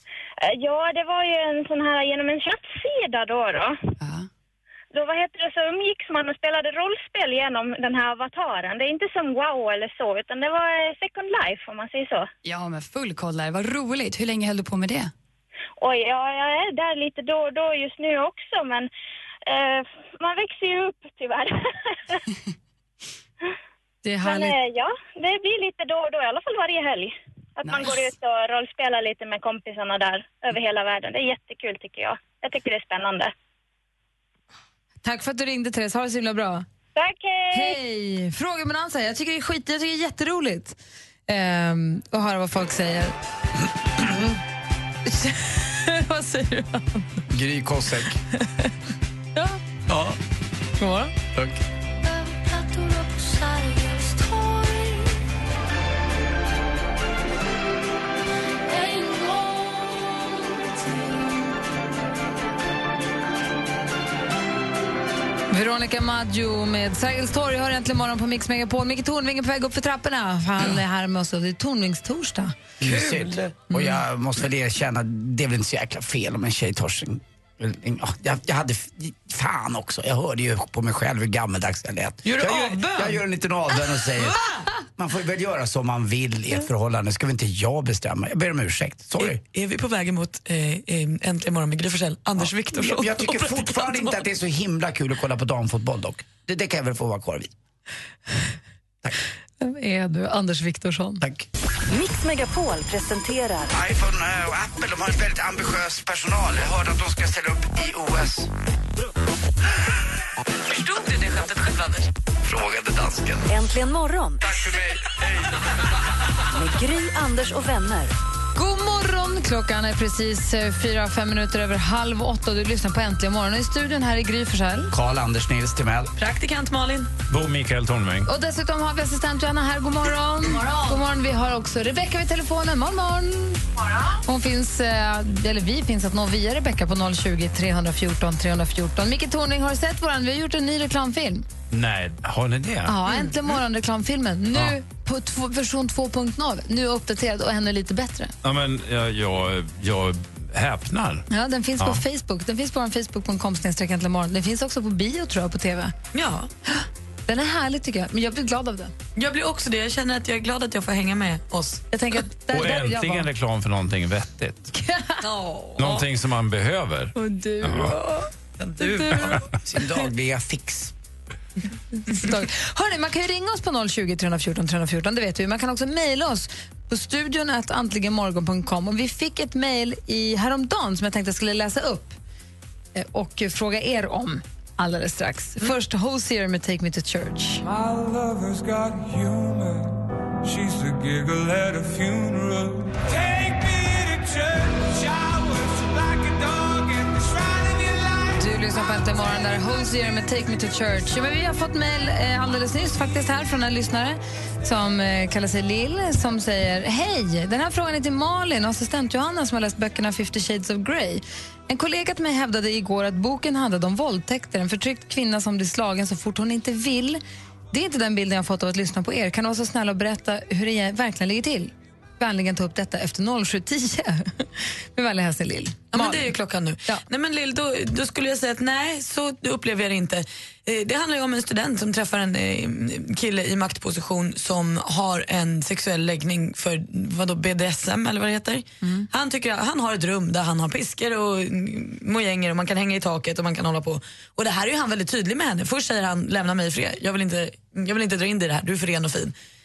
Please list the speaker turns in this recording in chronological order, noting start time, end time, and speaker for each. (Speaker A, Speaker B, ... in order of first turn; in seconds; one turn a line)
Speaker A: 0.4-3.8
Speaker B: 4.0-4.3
Speaker A: 4.9-12.3
Speaker B: 12.4-15.1
Speaker A: 15.8-18.9
Speaker A: 19.4-22.2
Speaker C: 24.0-24.5
Speaker A: 24.2-33.3
Speaker C: 35.0-36.6
Speaker A: 36.9-37.8
Speaker C: 37.5-43.1
Speaker C: 45.0-47.1
Speaker D: 47.3-48.2
Speaker C: 50.8-51.2
Speaker E: 52.0-55.1
Speaker E: 58.7-61.3
Speaker C: 65.5-72.5
Speaker D: 72.8-84.4
Speaker C: 82.5-83.0
Speaker D: 84.9-89.4
Speaker F: 89.2-94.2
Speaker D: 92.4-97.5
Speaker C: 99.6-101.2
Speaker D: 101.2-101.5
Speaker E: 101.9-103.7
Speaker D: 103.7-108.5
Speaker F: 110.7-112.1
Speaker D: 112.4-113.5
Speaker E: 113.5-114.4
Speaker D: 114.5-115.0
Speaker E: 116.5-118.1
Speaker C: 118.5-124.9
Speaker D: 124.9-126.1
Speaker F: 126.2-127.1
Speaker G: 127.3-128.3
Speaker C: 128.2-133.6
Speaker C: 134.2-141.5
Speaker G: 141.7-143.3
Speaker C: 142.8-148.3
Speaker G: 148.4-151.2
Speaker C: 151.3-155.9
Speaker F: 156.1-156.5
Speaker C: 157.3-158.9
Speaker F: 159.2-161.8
Speaker C: 161.9-163.3
Speaker G: 162.5-164.7
Speaker C: 164.7-165.2
Speaker F: 165.2-166.1
Speaker G: 165.8-168.0
Speaker C: 167.3-168.1
Speaker F: 168.6-169.4
Speaker C: 168.8-169.3
Speaker D: 169.6-170.9
Speaker C: 172.0-182.2
Speaker C: 182.9-187.6
Speaker H: 187.6-198.4
Speaker C: 198.4-217.2
Speaker C: 217.7-226.3
Speaker F: 225.9-249.3